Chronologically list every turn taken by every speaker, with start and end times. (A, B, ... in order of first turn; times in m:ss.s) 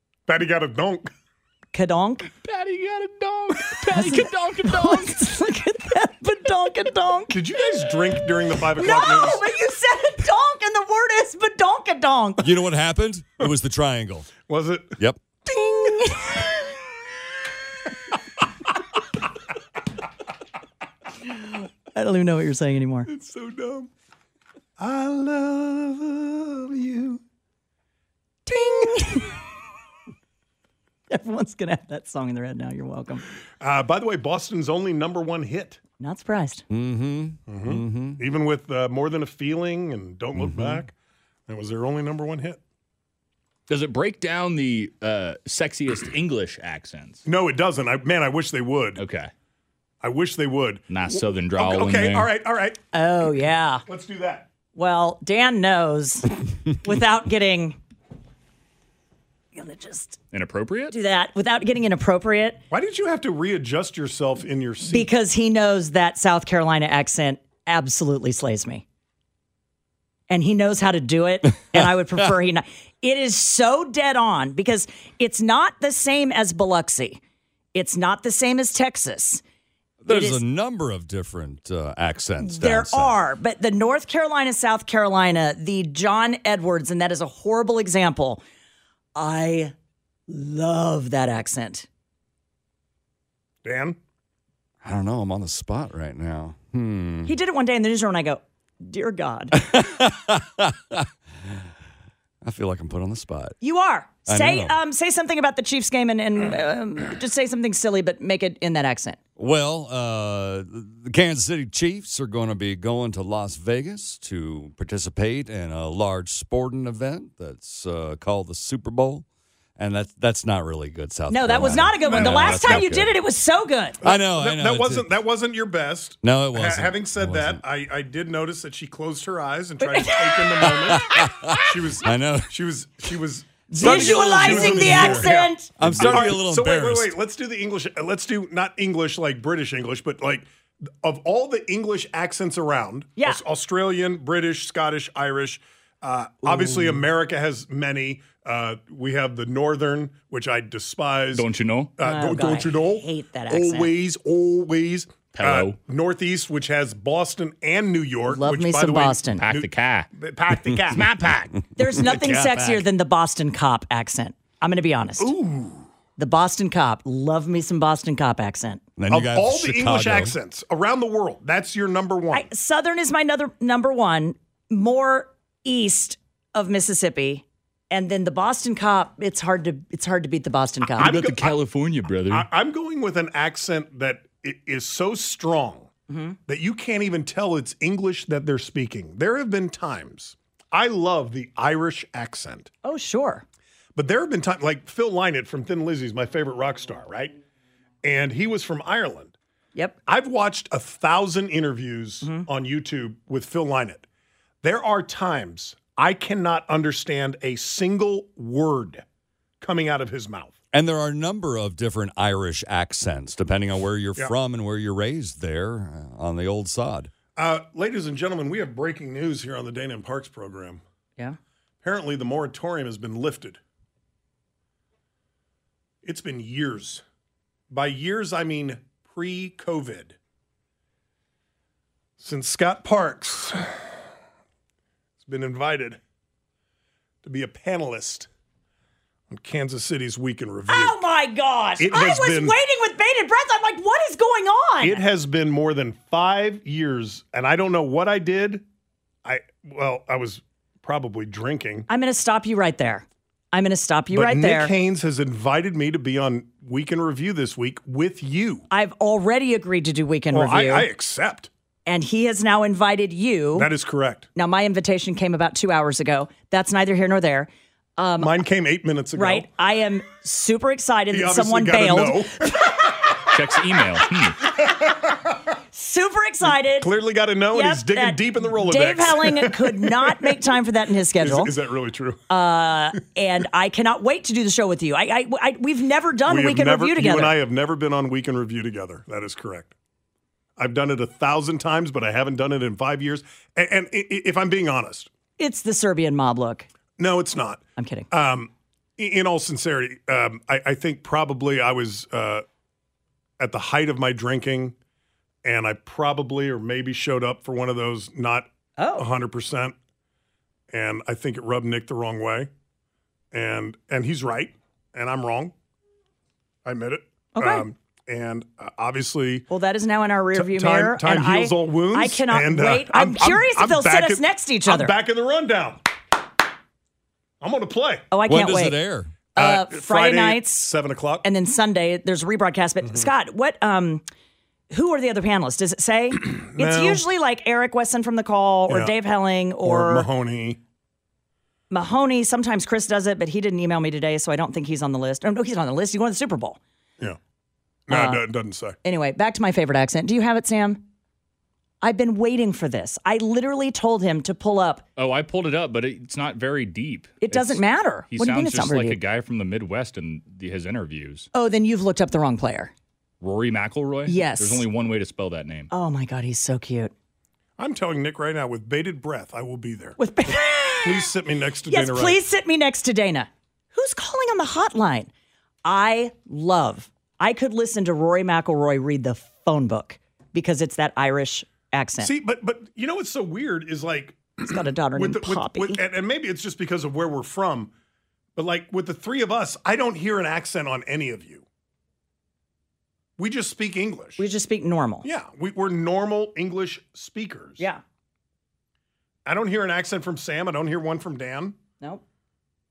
0:00.3-0:01.1 A
0:01.7-0:02.3 B
0:02.4-0:05.2 C
0:03.9-0:07.9 B
0:07.3-0:09.5 A
0:08.7-0:12.4 B
0:12.4-0:14.3 D
0:14.4-0:15.0 A
0:15.5-0:16.5 B
0:21.9-0:23.1 B
0:23.1-0:23.9 A
0:24.8-0:27.2 A
0:28.4-0:29.3 B
0:31.1-0:33.2 B
0:33.6-0:35.8 A
0:36.0-0:36.6 B
0:36.7-0:38.2 D
0:37.5-0:40.9 A
0:40.3-0:40.8 D
0:41.5-0:42.6 A
0:43.7-0:47.2 C
0:47.2-0:49.0 A
0:49.0-0:49.3 C
0:50.0-0:52.8 A
0:50.9-0:52.3 C
0:52.9-0:53.8 B
0:53.9-0:54.5 A
0:54.7-0:57.8 B
0:59.5-1:00.2 B
1:00.3-1:00.9 C
1:00.9-1:02.6 B
1:02.7-1:05.1 A
1:04.9-1:08.8 B
1:10.3-1:17.2 B
1:17.7-1:19.4 B
1:20.0-1:23.2 D
1:20.1-1:20.4 B
1:22.4-1:28.4 B
1:29.2-1:29.7 B
1:30.3-1:31.9 B
1:33.6-1:34.0 A
1:34.8-1:37.3 D
1:37.2-1:39.8 B
1:39.6-1:41.5 D
1:42.4-1:43.6 D
1:43.6-1:49.2 B
1:44.3-1:44.8 D
1:49.4-1:59.2 D
1:59.8-2:03.1 D
2:01.3-2:04.0 B
2:02.0-2:03.0 A
2:04.0-2:31.4 A
2:04.0-2:05.1 D
2:06.2-2:07.6 D
2:09.8-2:11.0 B
2:10.9-2:12.5 D
2:13.7-2:16.3 B
2:13.8-2:17.2 D
2:26.4-2:27.0 B
2:31.3-2:31.9 C
2:32.0-2:41.1 A
2:32.0-2:33.9 B
2:35.3-2:35.8 C
2:38.3-2:39.4 B
2:39.3-2:40.1 C
2:40.9-2:41.5 C
2:41.8-2:45.3 B
2:41.9-2:42.8 D
2:45.2-2:45.9 A
2:46.2-2:48.8 B
2:49.0-2:50.4 D
2:49.1-2:52.5 A
2:52.3-3:01.1 B
3:01.0-3:01.6 A
3:01.0-3:02.5 C
3:02.3-3:05.9 A
3:06.1-3:06.4 B
3:06.5-3:12.7 A
3:12.8-3:13.4 B
3:13.9-3:17.3 A
3:18.0-3:19.3 A
3:20.0-3:24.0 A
3:24.6-3:29.0 A
3:29.6-3:30.5 A
3:30.7-3:37.1 D
3:37.4-3:40.8 A
3:41.8-3:43.6 A
3:46.0-3:47.0 A
3:47.7-3:50.2 A
3:52.2-3:53.7 A
3:55.2-3:56.0 A
3:57.2-3:58.3 A
3:59.3-4:01.0 A
4:00.7-4:05.0 B
4:01.8-4:02.6 A
4:04.8-4:08.6 A
4:09.2-4:11.9 A
4:11.9-4:14.7 B
4:14.1-4:18.7 A
4:18.7-4:20.9 B
4:20.3-4:21.5 A
4:21.8-4:23.7 B
4:23.5-4:24.3 A
4:24.4-4:28.3 B
4:28.2-4:29.5 A
4:29.1-4:32.5 B
4:31.1-4:33.3 A
4:33.2-4:34.4 C
4:34.3-4:35.4 A
4:35.7-4:36.9 B
4:36.8-4:40.4 A
4:37.5-4:41.5 B
4:41.2-4:42.2 A
4:42.3-4:47.3 B
4:46.2-4:49.7 A
4:50.6-4:55.1 A
4:55.4-4:56.7 B
4:57.0-5:02.4 A
4:57.8-4:58.1 B
5:03.4-5:04.8 A
5:05.4-5:09.7 A
5:08.8-5:09.0 B
5:10.7-5:12.5 A
5:13.3-5:15.5 A
5:16.6-5:19.5 A
5:17.3-5:17.6 B
5:19.5-5:24.9 B
5:20.3-5:25.8 A
5:27.4-5:28.1 A
5:28.1-5:28.8 B
5:28.3-5:29.1 D
5:29.3-5:30.6 B
5:29.4-5:31.2 A
5:31.2-5:34.0 B
5:34.7-5:40.1 B
5:36.3-5:37.0 A
5:39.6-5:40.6 A
5:41.7-5:46.6 B
5:47.9-5:48.8 A
5:47.9-5:48.2 B
5:48.8-5:50.8 B
5:51.8-5:54.8 B
5:55.0-6:01.3 C
5:57.2-5:59.0 B
6:01.3-6:02.7 B
6:03.2-6:05.7 C
6:04.0-6:04.6 B
6:05.7-6:06.9 B
6:07.6-6:10.0 A
6:10.0-6:11.1 B
6:10.8-6:12.2 A
6:11.7-6:15.1 B
6:15.6-6:22.1 B
6:22.0-6:27.7 A
6:24.4-6:25.8 B
6:28.4-6:31.4 A
6:33.2-6:34.2 A
6:34.2-6:35.1 B
6:35.0-6:37.6 A
6:39.2-6:41.6 A